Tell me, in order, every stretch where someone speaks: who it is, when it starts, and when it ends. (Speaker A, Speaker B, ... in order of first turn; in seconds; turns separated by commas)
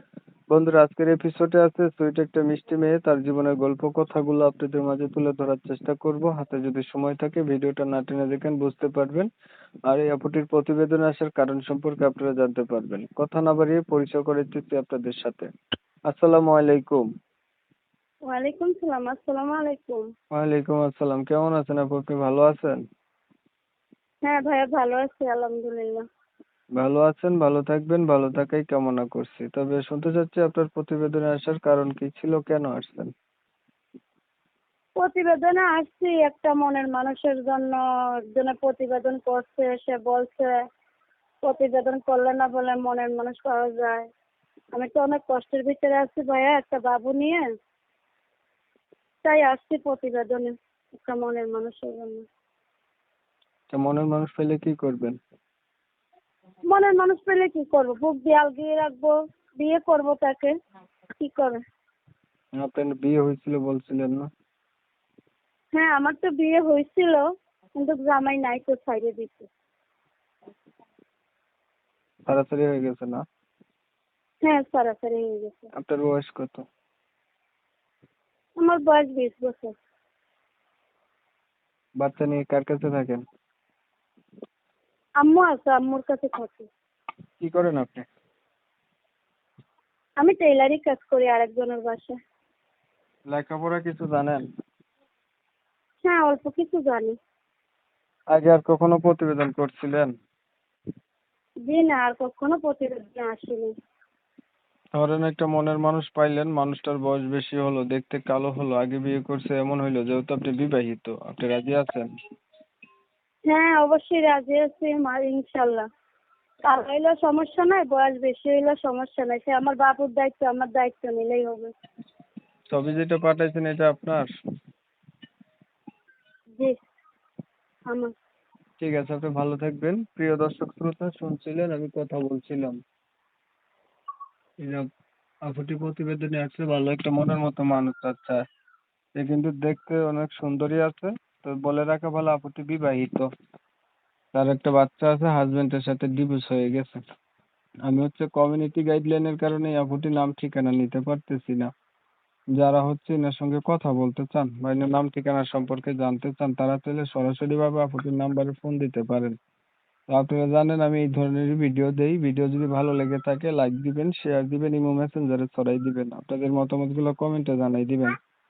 Speaker A: 0.5-9.3, Speaker A: 9.9-15.5, Speaker A: 16.1-17.1, Speaker B: 18.2-20.0, Speaker A: 20.3-22.8, Speaker B: 24.2-26.0, Speaker A: 26.8-33.1, Speaker B: 35.0-37.8, Speaker B: 38.3-40.5, Speaker B: 41.4-44.1, Speaker B: 44.7-47.4, Speaker B: 49.2-52.3, Speaker A: 53.7-55.2, Speaker B: 56.7-60.5, Speaker B: 61.2-61.6, Speaker A: 62.6-64.3, Speaker B: 65.7-69.5, Speaker A: 72.3-73.2, Speaker B: 74.4-75.7, Speaker A: 75.7-76.7, Speaker B: 78.6-79.8, Speaker A: 82.0-83.2, Speaker B: 85.2-86.7, Speaker A: 87.4-88.0, Speaker B: 90.2-92.2, Speaker A: 93.3-94.4, Speaker B: 96.0-97.2, Speaker A: 98.3-100.1, Speaker B: 101.7-103.7, Speaker A: 104.9-112.1, Speaker B: 113.5-115.8, Speaker B: 116.7-121.7, Speaker A: 122.7-124.3, Speaker A: 128.8-132.8, Speaker A: 134.6-134.9, Speaker A: 135.4-138.4, Speaker A: 139.1-143.3, Speaker A: 144.3-147.0, Speaker A: 147.9-151.7, Speaker A: 152.5-159.3, Speaker A: 160.1-168.2